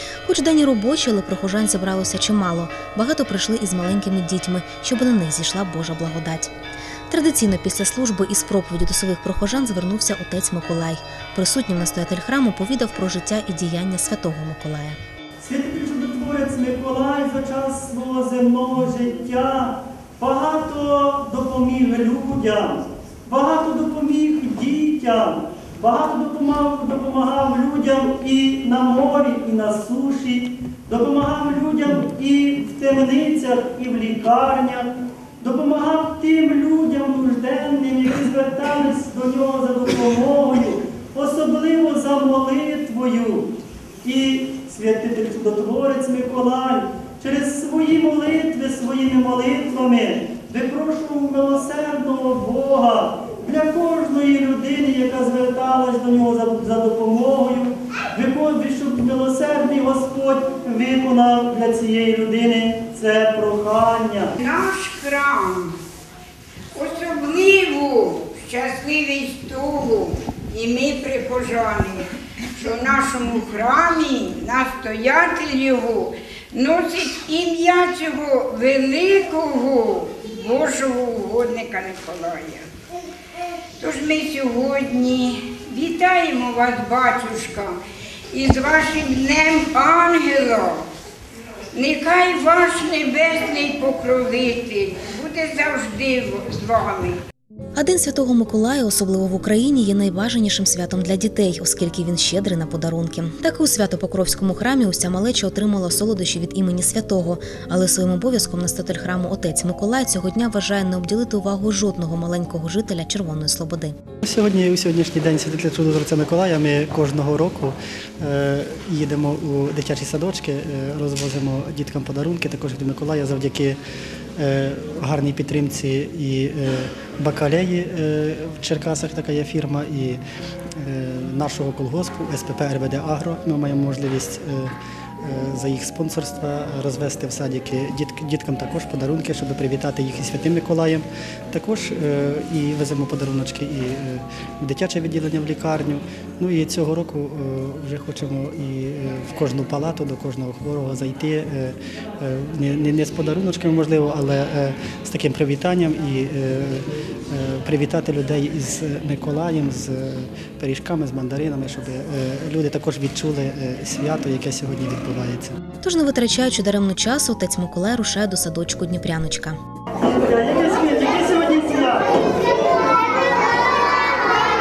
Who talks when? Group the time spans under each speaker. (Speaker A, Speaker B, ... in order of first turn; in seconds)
Speaker A: 0.2-6.5, 7.1-15.0, 97.7-114.0, 165.8-169.6
Speaker B: 15.4-43.5, 44.0-64.3, 169.9-172.1
Speaker C: 64.3-65.7, 66.7-82.7, 83.8-87.8, 88.3-90.8, 91.7-97.2
Speaker D: 114.2-123.8, 124.4-130.2, 130.8-165.5